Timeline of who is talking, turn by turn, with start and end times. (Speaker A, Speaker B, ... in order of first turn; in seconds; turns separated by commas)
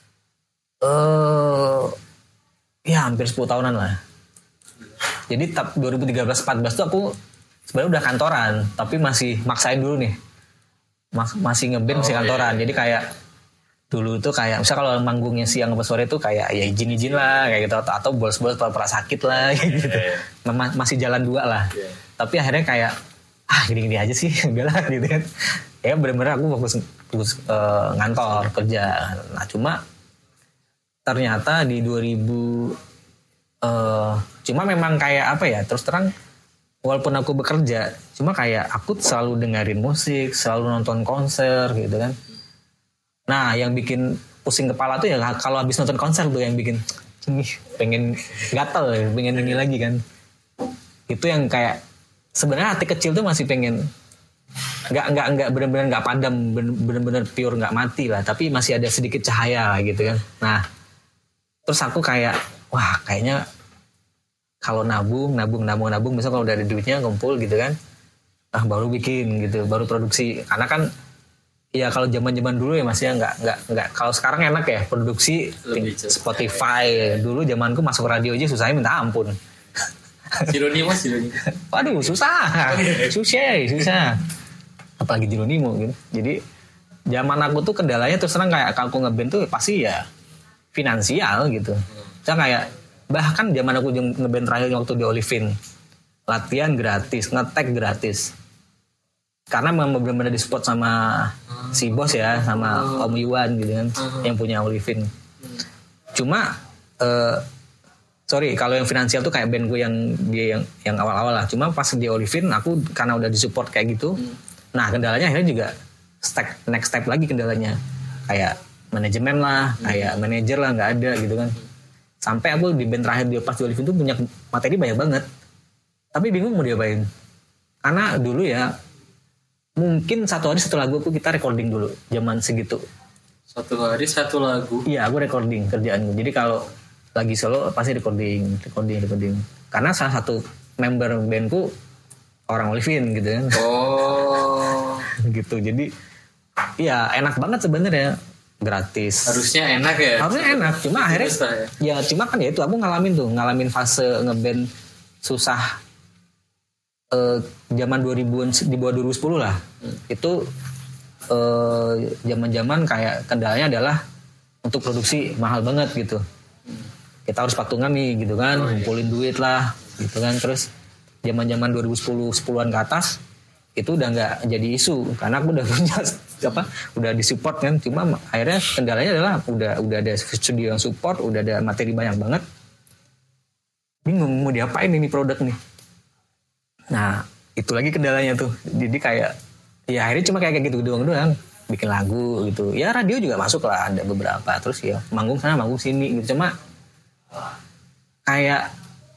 Speaker A: 0.8-1.9, Speaker A: 2.9-4.0, Speaker A: 5.3-7.1, Speaker A: 7.7-10.2, Speaker A: 11.1-13.1, Speaker B: 11.9-12.7, Speaker A: 13.9-22.9, Speaker A: 23.5-25.3, Speaker A: 25.8-29.8, Speaker A: 31.1-32.8, Speaker A: 33.6-36.1, Speaker A: 36.8-42.1, Speaker A: 43.3-50.0, Speaker A: 51.1-51.8, Speaker A: 52.4-53.8, Speaker A: 54.9-60.6, Speaker A: 61.6-63.4, Speaker A: 64.6-67.8, Speaker A: 68.5-70.9, Speaker A: 71.7-79.3, Speaker B: 75.7-76.6, Speaker B: 80.4-81.4, Speaker A: 81.7-84.1, Speaker B: 82.7-83.1, Speaker A: 85.0-86.4, Speaker A: 87.1-90.0, Speaker A: 90.7-95.5, Speaker A: 96.3-98.3, Speaker A: 99.5-105.1, Speaker B: 102.7-103.1, Speaker B: 104.0-104.2, Speaker A: 106.1-107.4, Speaker A: 108.3-114.2, Speaker A: 114.8-117.8, Speaker A: 118.3-121.5, Speaker A: 122.2-125.2, Speaker A: 126.1-127.1, Speaker A: 127.8-128.7, Speaker A: 129.8-132.8, Speaker B: 133.5-134.8, Speaker A: 134.8-136.6, Speaker A: 137.2-141.7, Speaker A: 142.5-143.6, Speaker B: 143.5-145.1, Speaker A: 145.2-145.9, Speaker A: 146.8-149.3, Speaker B: 149.2-151.7, Speaker A: 150.2-154.7, Speaker A: 155.2-155.8, Speaker A: 157.1-160.4, Speaker A: 161.3-164.0, Speaker A: 164.6-166.2, Speaker A: 167.3-170.7, Speaker B: 168.5-168.9, Speaker A: 171.2-173.2, Speaker A: 173.8-182.4, Speaker A: 184.0-185.6, Speaker A: 186.9-189.3, Speaker A: 189.9-196.5, Speaker A: 198.3-198.7